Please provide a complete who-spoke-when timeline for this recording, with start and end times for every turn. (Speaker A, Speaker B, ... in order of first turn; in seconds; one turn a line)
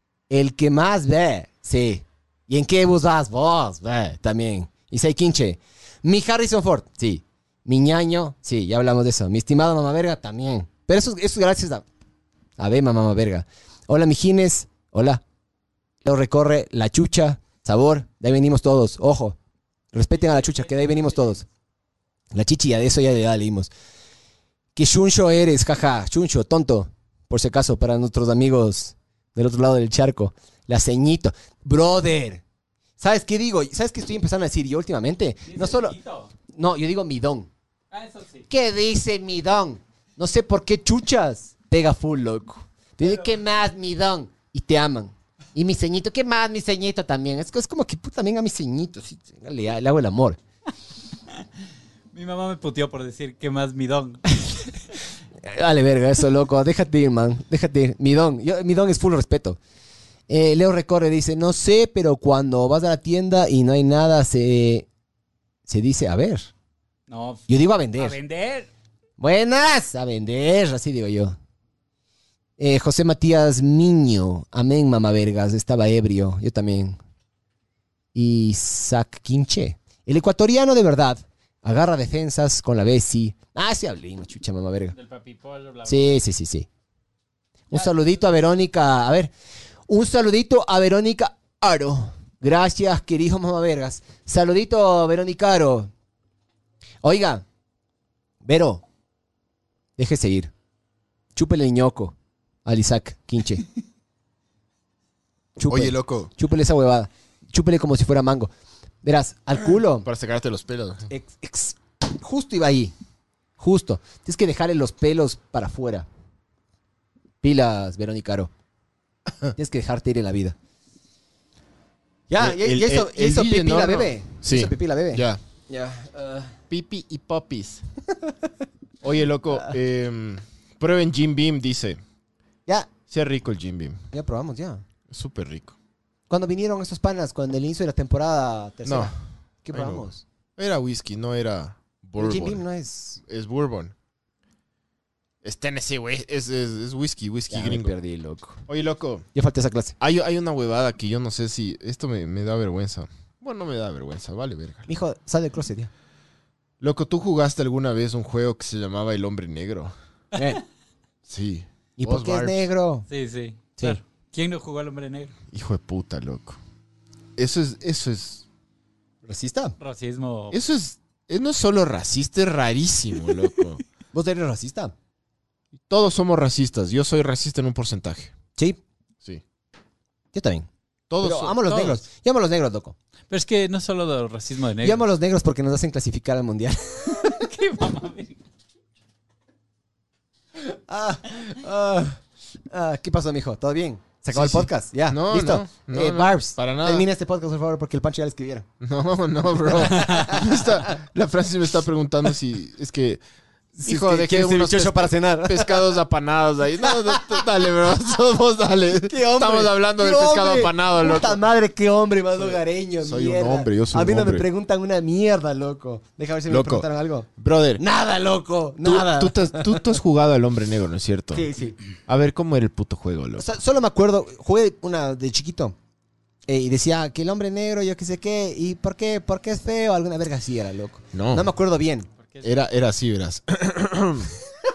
Speaker A: 0.3-11.8
Speaker A: 12.6-15.2
Speaker A: 16.0-19.4
Speaker A: 19.9-21.4
Speaker B: 20.1-21.3
Speaker A: 22.3-23.7
Speaker A: 24.7-32.4
Speaker A: 33.0-36.0
Speaker B: 35.5-36.3
Speaker A: 36.5-37.5
Speaker B: 37.9-38.5
Speaker A: 38.5-50.4
Speaker B: 43.0-43.3
Speaker B: 52.1-54.2
Speaker A: 55.4-59.6
Speaker A: 60.3-64.9
Speaker A: 65.7-66.5
Speaker B: 67.1-68.7
Speaker A: 67.5-68.2
Speaker A: 69.2-71.3
Speaker A: 72.6-77.0
Speaker A: 78.1-84.9
Speaker B: 84.9-86.2
Speaker A: 85.8-86.7
Speaker A: 87.7-89.3
Speaker A: 89.9-95.9
Speaker A: 97.0-97.4
Speaker A: 98.4-98.8
Speaker A: 100.0-100.5
Speaker A: 101.3-103.7
Speaker A: 105.6-108.5
Speaker C: 105.7-106.3
Speaker A: 109.0-110.1
Speaker C: 110.0-111.1
Speaker A: 111.1-112.9
Speaker A: 113.6-116.1
Speaker A: 117.4-118.5
Speaker A: 119.5-120.5
Speaker A: 122.3-126.5
Speaker C: 122.4-125.4
Speaker C: 126.7-127.8
Speaker C: 129.0-132.0
Speaker C: 133.1-134.0
Speaker A: 134.1-134.8
Speaker C: 135.1-135.8
Speaker A: 136.3-140.2
Speaker C: 138.8-139.1
Speaker C: 139.7-140.1
Speaker C: 140.6-142.6
Speaker A: 142.2-143.2
Speaker C: 143.2-143.9
Speaker C: 145.4-147.9
Speaker A: 147.5-148.6
Speaker C: 148.7-149.2
Speaker A: 149.3-149.9
Speaker C: 150.0-154.9
Speaker A: 154.9-155.9
Speaker C: 156.8-159.9
Speaker A: 160.3-160.6
Speaker C: 161.3-162.7
Speaker A: 162.0-163.1
Speaker B: 163.1-165.3
Speaker C: 165.5-166.6
Speaker C: 167.4-168.4
Speaker A: 169.2-169.7
Speaker B: 169.8-170.6
Speaker C: 170.5-173.8
Speaker A: 174.1-174.9
Speaker C: 175.9-178.3
Speaker A: 178.6-178.8
Speaker A: 180.3-180.7
Speaker C: 181.1-182.0
Speaker A: 181.2-182.9
Speaker B: 183.3-185.1
Speaker A: 184.8-187.3
Speaker B: 187.1-188.4
Speaker A: 190.6-198.7
Speaker C: 194.3-197.0
Speaker C: 198.8-203.2
Speaker A: 199.8-200.9
Speaker A: 203.8-205.8
Speaker C: 203.8-211.4
Speaker A: 206.9-207.4
Speaker A: 209.1-219.8
Speaker C: 212.4-214.4
Speaker C: 216.5-217.8
Speaker C: 218.8-221.4
Speaker A: 221.3-221.8
Speaker C: 222.1-223.4
Speaker A: 223.4-225.7
Speaker A: 226.5-232.1
Speaker C: 231.1-231.5
Speaker C: 232.4-234.3